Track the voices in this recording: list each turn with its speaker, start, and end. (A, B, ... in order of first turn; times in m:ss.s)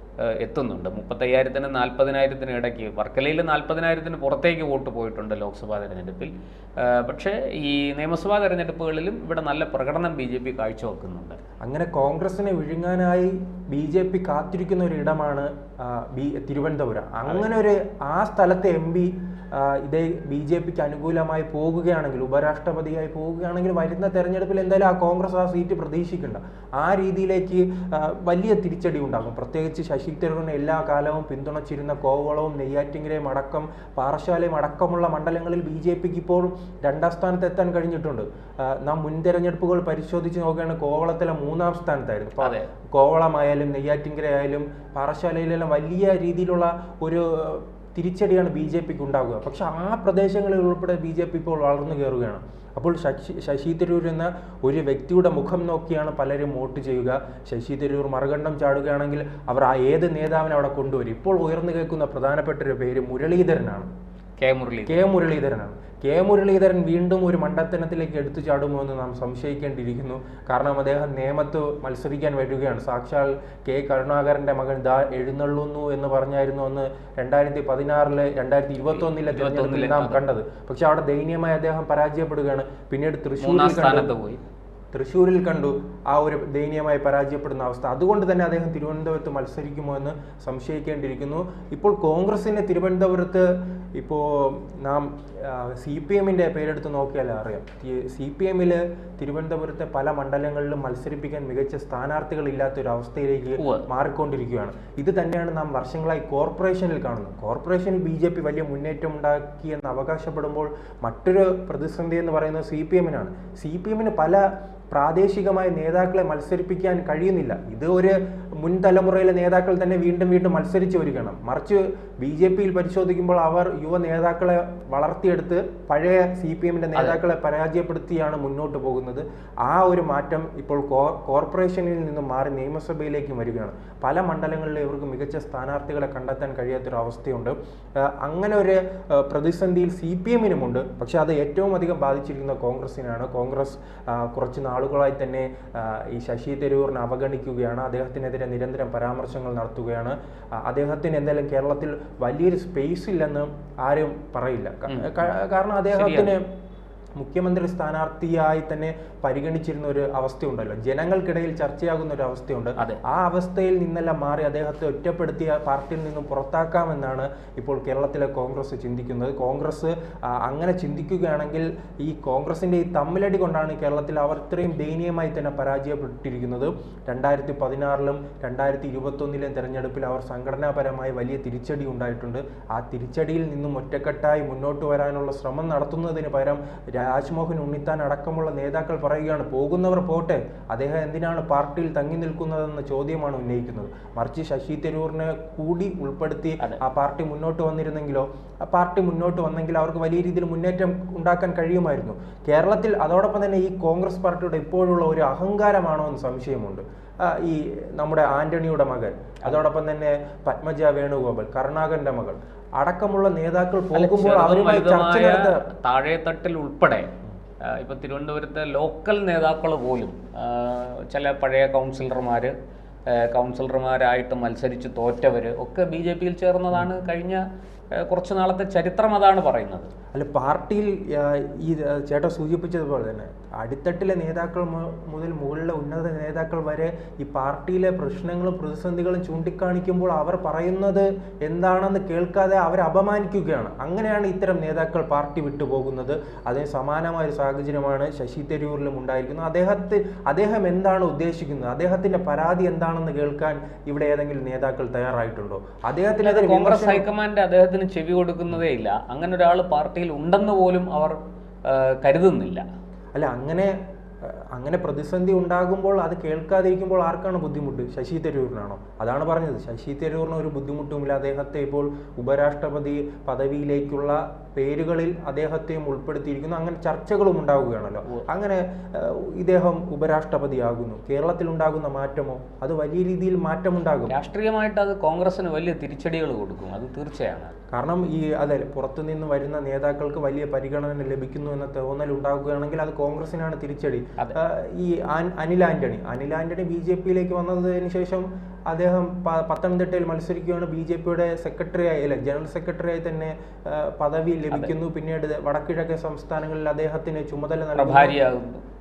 0:00.2-0:11.4 A
0:11.6-1:03.9 B
0:42.4-0:42.7 A
1:04.4-1:05.1 A
1:04.9-1:24.1 B
1:18.9-1:20.2 A
1:23.4-1:24.4 A
1:24.9-2:36.4 B
1:43.6-1:43.8 A
2:34.9-2:35.2 A
2:35.9-2:36.3 A
2:37.2-3:35.6 B
3:33.9-3:37.1 A
3:37.6-3:42.5 A
3:43.1-3:47.4 A
3:47.9-3:49.9 A
3:50.1-4:17.0 B
4:16.2-4:21.2 A
4:21.7-4:22.6 A
4:23.1-4:44.1 B
4:44.1-4:47.5 A
4:47.7-5:08.2 B
5:07.8-5:08.6 A